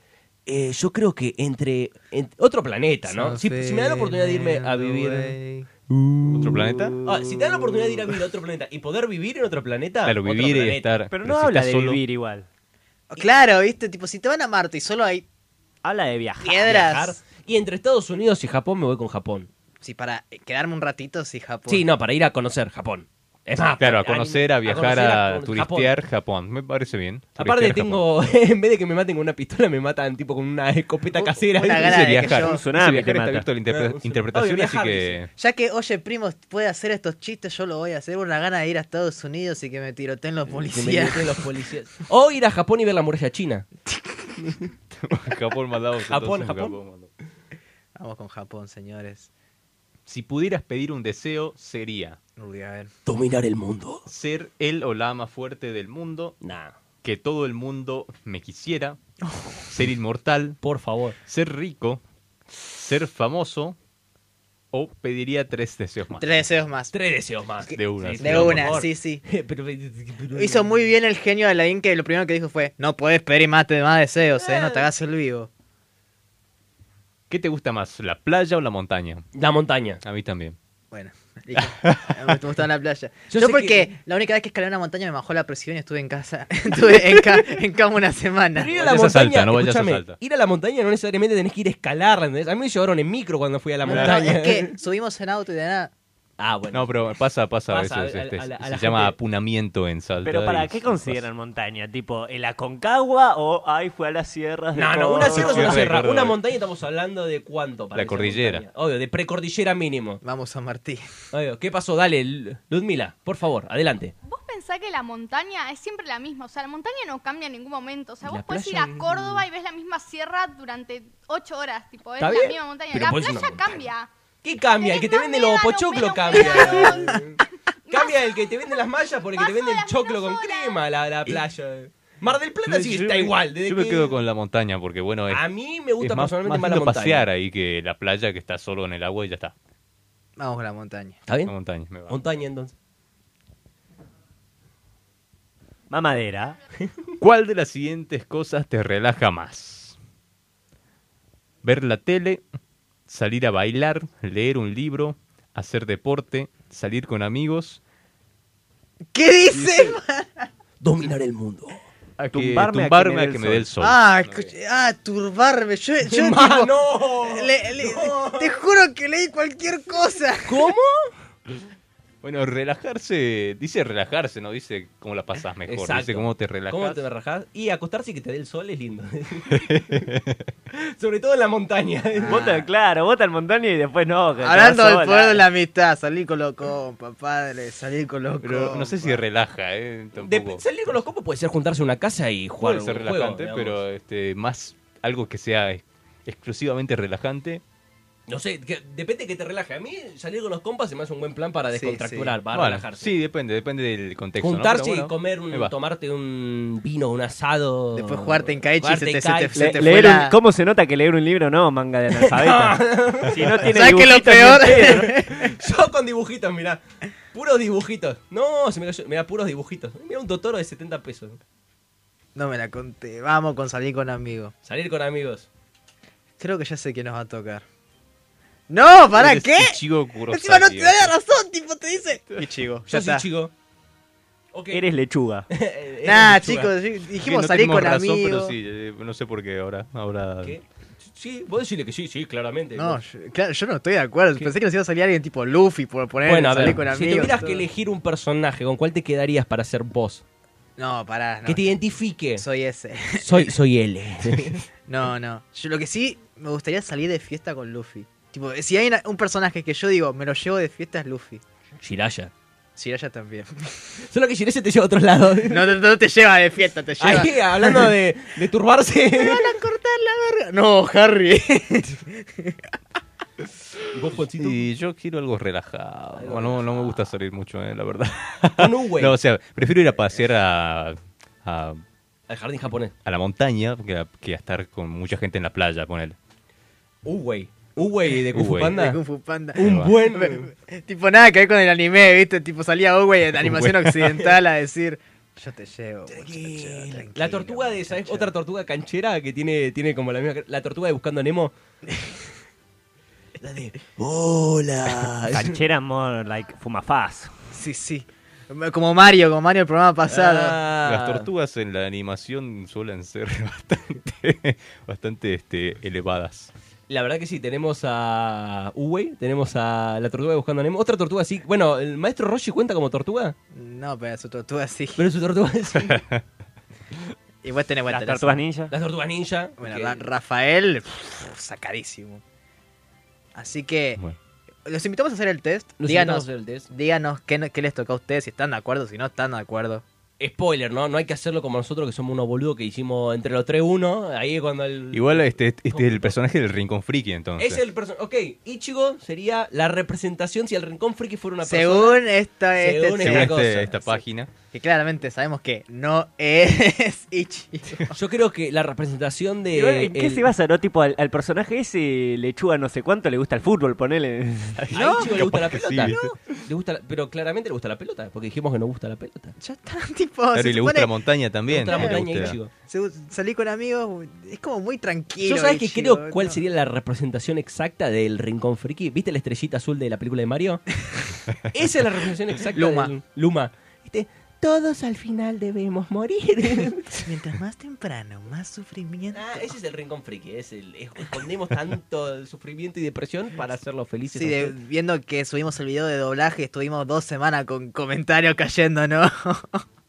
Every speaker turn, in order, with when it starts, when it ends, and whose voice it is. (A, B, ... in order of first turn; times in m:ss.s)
0:00.4-0:05.3 A
0:03.1-0:08.0 B
0:06.3-0:06.9 C
0:07.0-0:11.0 A
0:10.0-0:12.0 C
0:11.1-0:12.5 D
0:13.1-0:15.2 B
0:15.8-0:16.8 D
0:16.4-0:17.2 B
0:16.6-0:19.5 A
0:19.8-0:21.8 B
0:21.7-0:25.9 A
0:23.8-0:28.0 C
0:27.4-0:32.2 A
0:31.2-0:32.6 B
0:31.7-0:35.3 C
0:32.4-0:33.5 D
0:33.6-0:35.2 A
0:35.4-0:41.4 B
0:40.6-0:43.6 A
0:45.0-0:47.1 C
0:46.0-0:46.8 A
0:48.0-0:49.3 B
0:50.0-0:52.2 C
0:52.4-0:52.9 B
0:53.0-0:54.0 A
0:54.1-0:56.4 C
0:56.4-0:56.7 A
0:57.0-0:59.0 C
0:59.3-0:59.6 B
0:59.7-1:00.6 C
1:00.6-1:01.2 A
1:01.2-1:02.0 C
1:02.7-1:03.8 C
1:04.7-1:06.4 C
1:06.2-1:06.9 B
1:06.9-1:10.7 A
1:07.7-1:08.8 C
1:08.2-1:09.2 B
1:10.3-1:15.5 B
1:14.4-1:14.8 A
1:17.3-1:19.2 C
1:19.3-1:20.0 A
1:20.0-1:20.6 C
1:20.9-1:28.8 B
1:21.8-1:22.1 C
1:23.3-1:23.9 A
1:28.5-1:34.7 A
1:28.8-1:30.2 C
1:33.8-1:35.9 B
1:33.8-1:34.1 C
1:36.4-1:37.0 A
1:36.7-1:41.3 C
1:37.7-1:39.1 A
1:40.2-1:45.9 D
1:44.7-1:50.2 A
1:45.3-1:46.4 C
1:47.9-1:48.6 C
1:50.2-1:51.1 B
1:51.3-1:54.1 A
1:54.2-2:04.1 E
1:58.2-1:59.4 A
2:02.2-2:03.8 A
2:04.4-2:14.1 A
2:04.7-2:07.2 E
2:07.9-2:08.7 E
2:09.3-2:10.8 E
2:12.6-2:15.4 C
2:15.3-2:17.3 A
2:16.0-2:19.5 C
2:20.4-2:21.2 B
2:21.3-2:21.5 A
2:21.4-2:22.2 C
2:22.1-2:22.7 A
2:25.9-2:26.6 D
2:27.2-2:30.0 C
2:31.6-2:32.4 C
2:33.1-2:37.8 C
2:39.1-2:40.5 B
2:39.5-2:39.9 A
2:40.8-2:41.8 A
2:42.2-2:44.5 C
2:42.3-2:43.7 D
2:43.8-2:50.7 B
2:46.1-2:48.5 A
2:50.5-2:51.1 A
2:52.2-2:57.0 C
2:55.7-2:59.6 A
2:59.5-3:00.4 C
3:00.7-3:02.5 A
3:02.2-3:02.7 B
3:02.3-3:05.4 D
3:04.4-3:09.2 B
3:08.4-3:10.6 C
3:10.2-3:13.8 A
3:12.6-3:17.6 C
3:18.3-3:23.1 A
3:21.7-3:22.3 B
3:22.5-3:25.7 C
3:24.4-3:29.9 A
3:28.0-3:30.4 B
3:29.6-3:35.1 D
3:32.2-3:36.8 A
3:33.6-3:35.5 B
3:37.3-3:41.4 A
3:42.3-3:44.5 B
3:44.6-3:45.5 A
3:46.4-3:47.6 B
3:48.7-3:53.2 B
3:49.1-3:51.1 C
3:52.9-3:53.5 A
3:54.5-3:54.8 A
3:54.7-3:55.5 D
3:55.5-3:56.7 A
3:56.0-3:58.5 B
3:57.2-4:00.6 C
4:00.4-4:03.0 A
4:02.8-4:07.6 B
4:06.2-4:10.2 A
4:10.8-4:11.7 B
4:11.4-4:12.4 A
4:12.4-4:13.5 B
4:13.2-4:14.6 A
4:14.9-4:21.4 B
4:21.8-4:22.3 A
4:22.8-4:24.0 B
4:24.1-4:25.7 A
4:25.5-4:27.9 B
4:27.0-4:29.5 A
4:29.2-4:32.6 B
4:33.9-4:34.6 A
4:34.4-4:41.8 C
4:36.2-4:37.0 A
4:38.6-4:39.1 A
4:42.3-4:42.9 A
4:43.0-4:46.2 C
4:47.0-4:49.0 A
4:48.3-4:48.8 C
4:48.6-4:58.3 B
4:49.6-4:50.5 A
4:49.6-4:49.9 C
4:53.4-4:54.1 C
4:56.1-5:01.5 A
5:03.4-5:05.6 A
5:05.3-5:07.3 D
5:07.5-5:10.6 B
5:10.1-5:11.2 A
5:10.8-5:16.5 C
5:16.9-5:23.3 A
5:23.5-5:25.1 B
5:25.0-5:26.0 A
5:25.9-5:26.2 C
5:27.4-5:28.4 B
5:27.9-5:28.7 D
5:28.7-5:30.0 A
5:29.6-5:32.2 B
5:33.3-5:34.0 B
5:34.6-5:39.8 B
5:35.8-5:36.7 A
5:40.2-5:46.2 A
5:44.9-5:47.6 C
5:47.4-5:52.0 A
5:51.4-5:53.4 B
5:52.5-5:53.8 A
5:53.0-5:54.3 C
5:54.5-5:57.9 B
5:57.9-6:00.3 A
5:59.5-6:04.6 D
6:04.6-6:06.1 C
6:04.7-6:09.3 A
6:04.7-6:05.1 B
6:09.4-6:10.9 B
6:10.3-6:12.4 C
6:11.5-6:12.5 A
6:11.6-6:16.4 B
6:15.2-6:20.6 A
6:21.5-6:26.9 A
6:22.5-6:22.9 B
6:26.9-6:29.5 B
6:29.1-6:34.6 A
6:34.1-6:39.6 B